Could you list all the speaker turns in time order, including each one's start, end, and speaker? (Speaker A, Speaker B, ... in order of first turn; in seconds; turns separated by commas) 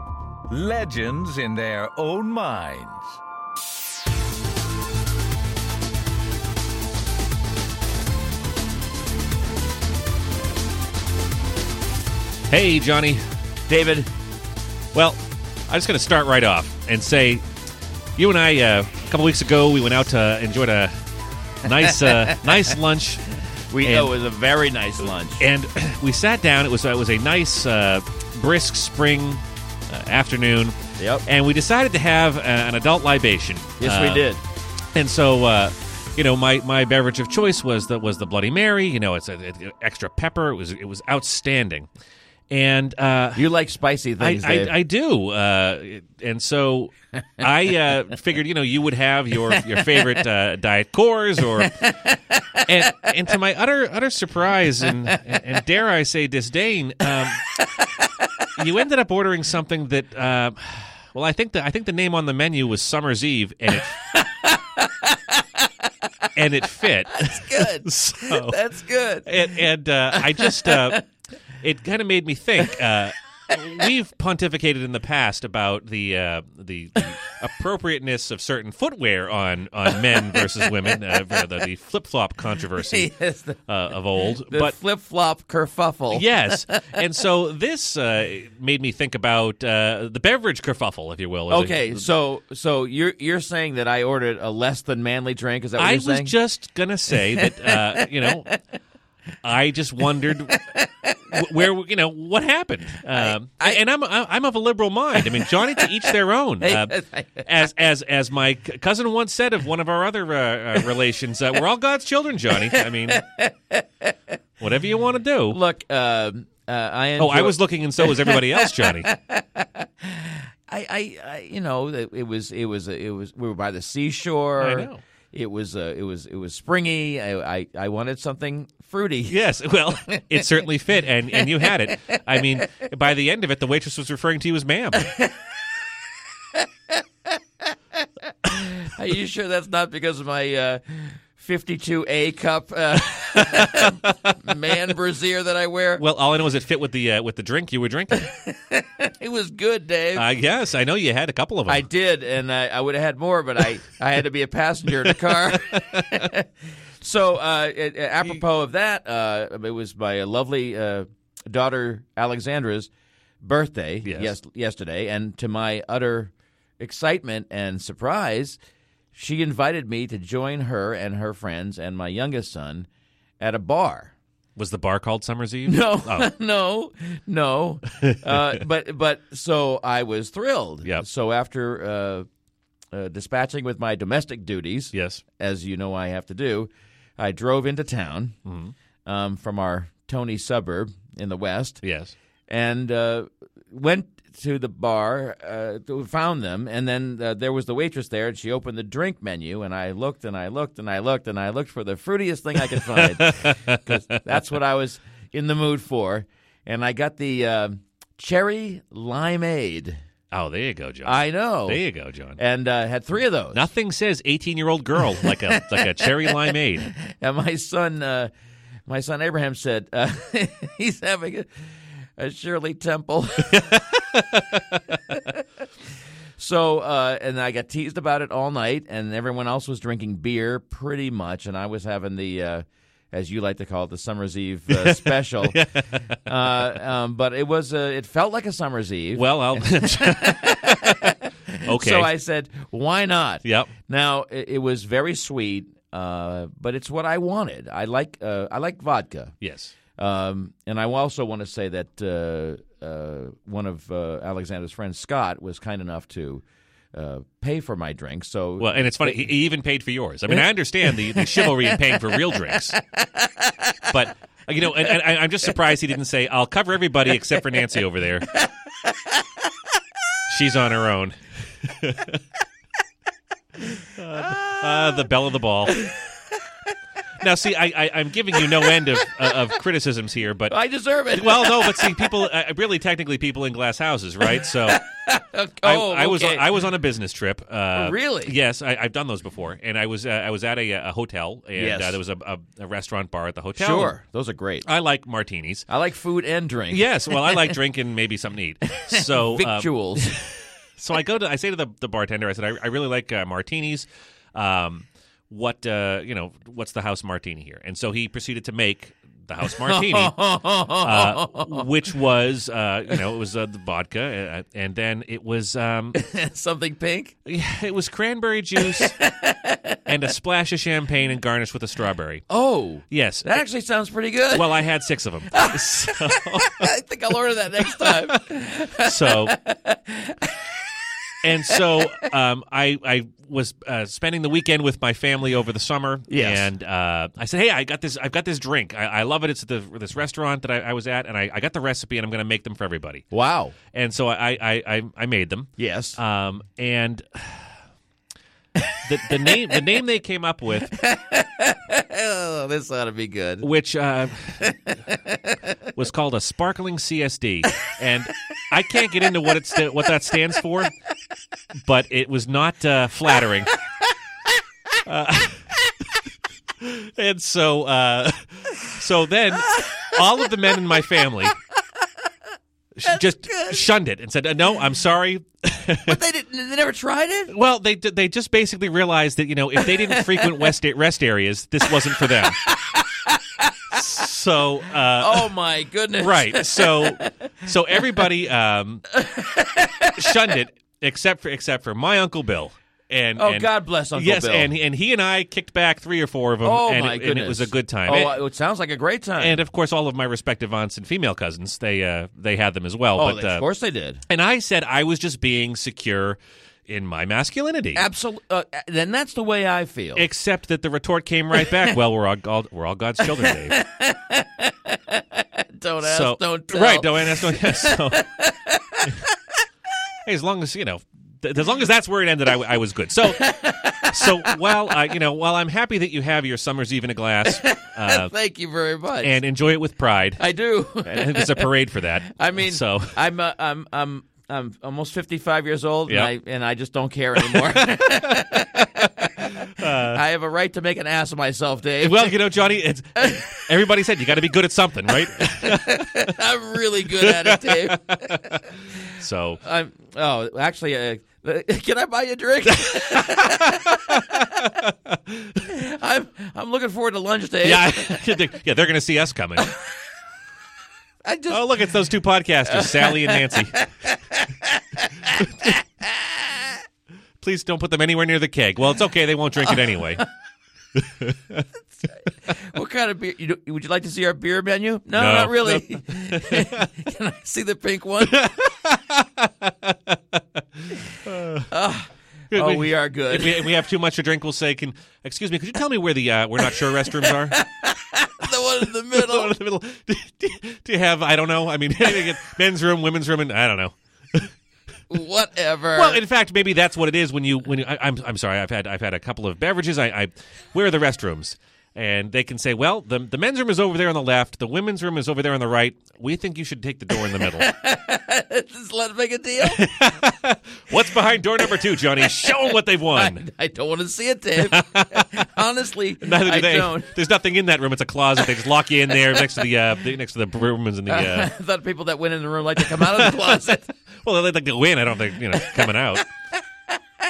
Speaker A: 0.5-3.2, Speaker B: 12.5-13.2, Speaker C: 13.7-14.1, Speaker B: 14.9-17.4, Speaker B: 18.2-20.9, Speaker B: 21.6-23.3, Speaker C: 22.0-22.4, Speaker C: 23.7-25.5, Speaker B: 23.8-24.1, Speaker B: 25.4-34.2, Speaker C: 31.0-31.2, Speaker C: 33.8-34.4, Speaker B: 35.0-41.9, Speaker B: 42.5-43.5, Speaker C: 43.4-44.8, Speaker B: 44.2-51.9, Speaker C: 49.5-50.1, Speaker C: 51.5-52.4, Speaker B: 52.6-57.5, Speaker B: 58.6-64.0, Speaker C: 64.0-65.7, Speaker B: 66.4-68.6, Speaker C: 67.1-69.5, Speaker B: 69.2-71.0, Speaker C: 70.1-71.0, Speaker B: 71.6-83.1, Speaker C: 80.1-80.5, Speaker C: 82.7-83.6, Speaker B: 83.7-84.8, Speaker C: 84.4-86.9, Speaker B: 86.1-92.0, Speaker C: 91.5-96.3, Speaker B: 95.8-98.5, Speaker C: 97.3-98.6, Speaker B: 99.4-100.7, Speaker C: 100.5-101.3, Speaker B: 101.3-113.2, Speaker C: 103.1-103.8, Speaker C: 105.2-106.0, Speaker C: 106.6-107.5, Speaker C: 112.5-114.1, Speaker B: 114.6-115.6, Speaker C: 115.5-129.4, Speaker B: 117.2-119.1, Speaker B: 124.6-125.0, Speaker B: 129.3-135.1, Speaker C: 130.1-130.7, Speaker C: 131.3-132.6, Speaker C: 135.0-135.4, Speaker C: 136.6-136.9, Speaker C: 138.4-146.0, Speaker B: 143.7-143.9, Speaker B: 146.0-148.3, Speaker C: 148.1-150.3, Speaker B: 150.2-151.8, Speaker C: 151.7-156.5, Speaker B: 155.4-156.1, Speaker C: 157.0-162.9, Speaker C: 163.4-168.6, Speaker B: 164.1-164.3, Speaker C: 169.1-172.9, Speaker C: 173.4-174.1, Speaker B: 174.6-176.3, Speaker C: 175.7-182.3, Speaker B: 178.1-178.4, Speaker C: 182.9-188.4, Speaker B: 184.9-185.2, Speaker B: 188.4-188.7, Speaker C: 189.1-191.8, Speaker B: 191.8-192.1, Speaker C: 192.5-210.0, Speaker B: 202.8-204.0, Speaker B: 210.3-212.4, Speaker C: 211.0-211.8, Speaker C: 212.4-213.6, Speaker B: 213.5-216.9, Speaker C: 215.1-218.3, Speaker C: 218.9-221.5, Speaker C: 222.2-223.8, Speaker B: 223.5-224.8, Speaker C: 225.1-225.4, Speaker C: 226.4-235.6, Speaker B: 234.7-236.2, Speaker C: 236.2-249.3, Speaker B: 239.2-242.1, Speaker B: 243.4-243.7, Speaker B: 249.4-249.7, Speaker C: 250.0-259.3, Speaker B: 258.6-262.8, Speaker C: 260.3-262.4, Speaker C: 263.0-263.8, Speaker B: 263.9-268.4, Speaker B: 270.3-272.2, Speaker B: 274.0-275.8, Speaker C: 274.2-275.0, Speaker C: 275.7-276.1, Speaker B: 277.2-280.5, Speaker C: 278.3-279.1, Speaker C: 280.5-282.3, Speaker B: 281.1-284.9, Speaker C: 284.4-286.5, Speaker B: 285.6-293.9, Speaker C: 287.8-288.3, Speaker C: 291.6-292.0, Speaker C: 293.6-294.7, Speaker B: 294.6-295.7, Speaker C: 295.7-297.6, Speaker B: 296.7-300.2, Speaker C: 298.7-300.1, Speaker B: 300.8-316.0, Speaker C: 309.5-311.7, Speaker C: 315.9-317.1, Speaker B: 317.3-319.0, Speaker C: 318.6-319.8, Speaker B: 319.9-322.3, Speaker C: 322.3-324.6, Speaker B: 322.9-323.4, Speaker B: 324.3-326.7, Speaker C: 325.3-330.4, Speaker B: 327.6-328.2, Speaker B: 328.8-329.4, Speaker B: 331.2-343.1, Speaker C: 331.4-332.1, Speaker C: 336.1-336.5, Speaker C: 343.1-343.6, Speaker B: 343.7-347.4, Speaker C: 345.6-346.0, Speaker B: 348.8-350.8, Speaker C: 349.1-349.6, Speaker C: 350.7-353.5, Speaker B: 353.4-354.6, Speaker C: 354.5-355.4, Speaker B: 355.7-360.7, Speaker B: 361.6-363.5, Speaker B: 364.9-365.6, Speaker B: 366.6-371.4, Speaker B: 372.8-376.0, Speaker C: 372.9-373.6, Speaker C: 375.9-377.3, Speaker B: 377.3-382.4, Speaker C: 379.6-380.4, Speaker C: 381.7-383.8, Speaker B: 383.7-385.3, Speaker C: 385.0-388.1, Speaker B: 386.0-389.0, Speaker C: 388.9-390.4, Speaker B: 389.9-398.1, Speaker C: 393.2-394.5, Speaker C: 396.4-399.4, Speaker B: 399.2-403.4, Speaker C: 403.0-404.0, Speaker B: 404.1-407.8, Speaker C: 407.7-410.1, Speaker B: 410.0-413.6, Speaker C: 411.4-411.7, Speaker C: 413.0-419.2, Speaker B: 415.8-418.0, Speaker B: 420.1-428.1, Speaker C: 423.0-424.8, Speaker C: 427.3-429.2, Speaker B: 429.0-430.2, Speaker C: 430.2-431.5, Speaker B: 430.8-433.0, Speaker C: 432.1-442.2, Speaker B: 437.2-438.7, Speaker B: 439.3-440.0, Speaker B: 441.8-446.1, Speaker C: 443.0-443.2, Speaker C: 445.2-448.6, Speaker B: 446.9-448.4, Speaker B: 448.9-449.4, Speaker C: 449.4-454.6, Speaker B: 453.9-454.7, Speaker C: 455.4-458.2, Speaker B: 457.4-459.5, Speaker C: 461.0-461.8, Speaker B: 461.3-463.6, Speaker C: 462.5-466.5, Speaker B: 467.2-470.1, Speaker C: 469.5-470.0, Speaker B: 470.8-471.4, Speaker C: 472.3-478.4, Speaker B: 474.9-476.7, Speaker B: 478.1-480.0, Speaker B: 481.0-481.5, Speaker C: 481.5-483.5, Speaker B: 482.3-487.4, Speaker C: 486.8-489.3, Speaker B: 488.9-494.3, Speaker C: 494.9-496.0, Speaker B: 495.8-507.5, Speaker C: 507.0-509.7, Speaker B: 509.5-513.2, Speaker C: 511.7-516.9, Speaker B: 514.4-515.3, Speaker B: 516.0-521.3, Speaker C: 520.9-523.7, Speaker B: 522.6-523.4, Speaker B: 524.0-526.1, Speaker C: 525.3-525.8